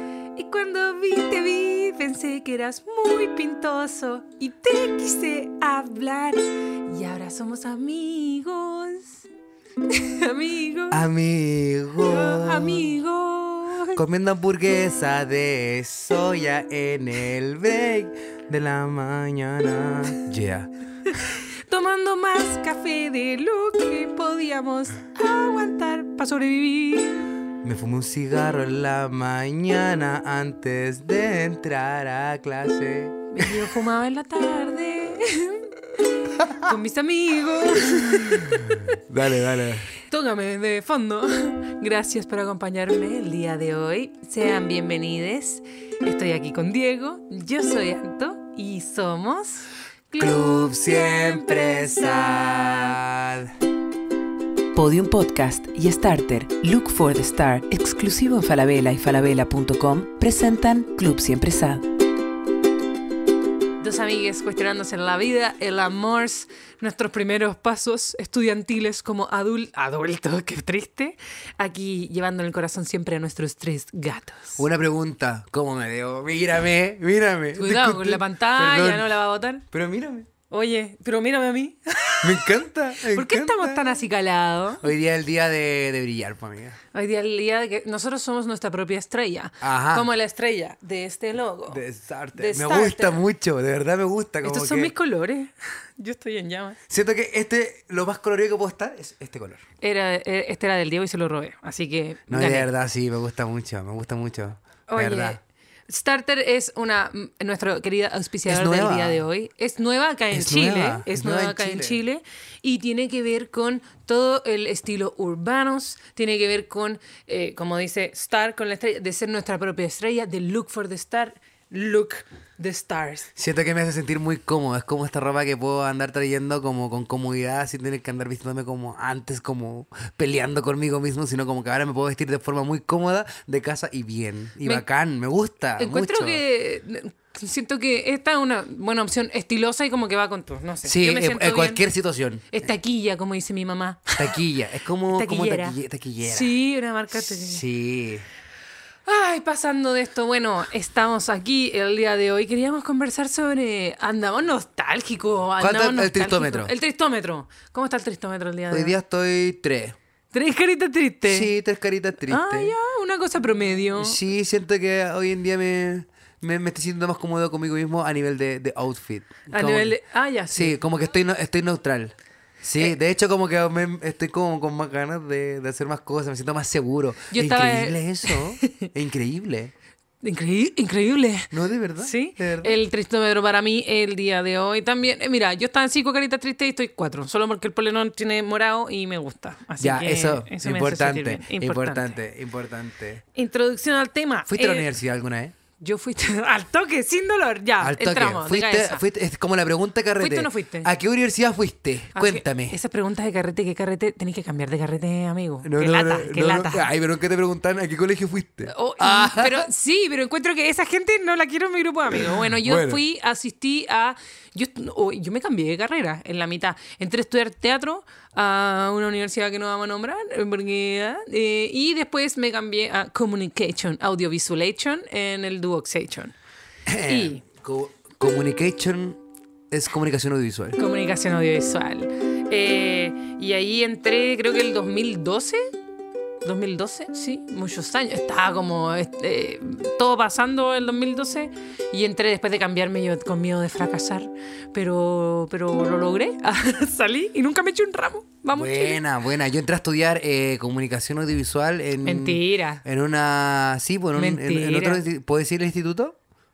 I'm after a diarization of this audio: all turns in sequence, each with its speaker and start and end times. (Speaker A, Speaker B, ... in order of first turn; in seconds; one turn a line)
Speaker A: 0.3-9.2
Speaker A: 9.9-11.0
Speaker B: 10.9-12.9
Speaker A: 12.0-14.0
Speaker B: 13.9-20.7
Speaker A: 21.2-27.3
Speaker B: 27.6-33.6
Speaker A: 33.3-35.6
Speaker A: 36.5-38.8
Speaker B: 38.2-39.9
Speaker A: 40.1-52.9
Speaker B: 50.1-53.5
Speaker C: 54.7-61.8
Speaker A: 63.8-74.6
Speaker B: 74.6-79.1
Speaker A: 77.5-79.6
Speaker B: 79.7-80.3
Speaker A: 80.5-84.8
Speaker B: 82.2-84.0
Speaker B: 84.8-86.8
Speaker A: 86.9-91.8
Speaker B: 89.6-90.1
Speaker B: 91.7-94.9
Speaker A: 92.3-93.2
Speaker A: 94.4-96.8
Speaker B: 96.9-99.6
Speaker A: 99.8-102.7
Speaker B: 102.3-105.4
Speaker A: 104.9-123.3
Speaker B: 108.4-109.2
Speaker B: 110.3-112.0
Speaker B: 123.3-136.4
Speaker A: 135.8-141.8
Speaker B: 140.8-142.5
Speaker A: 142.5-144.4
Speaker B: 144.1-146.5
Speaker A: 145.1-147.6
Speaker B: 147.2-148.2
Speaker A: 149.1-158.9
Speaker B: 155.6-156.7
Speaker B: 158.7-159.9
Speaker A: 160.3-161.5
Speaker B: 161.2-162.7
Speaker A: 162.2-164.2
Speaker B: 163.9-170.0
Speaker A: 169.5-170.8
Speaker B: 170.5-179.7
Speaker A: 177.3-178.7
Speaker A: 180.2-192.2
Speaker B: 181.5-182.8
Speaker B: 189.8-193.2
Speaker A: 193.3-194.9
Speaker B: 194.5-195.5
Speaker A: 195.8-199.0
Speaker B: 197.8-202.8
Speaker A: 200.2-200.9
Speaker A: 202.1-206.9
Speaker B: 205.6-209.6
Speaker A: 208.7-226.3
Speaker B: 212.1-213.0
Speaker B: 226.9-229.2
Speaker A: 227.1-227.4
Speaker B: 229.7-230.8
Speaker A: 230.8-235.6
Speaker A: 236.4-249.0
Speaker B: 248.5-256.1
Speaker A: 252.0-252.8
Speaker A: 254.1-255.0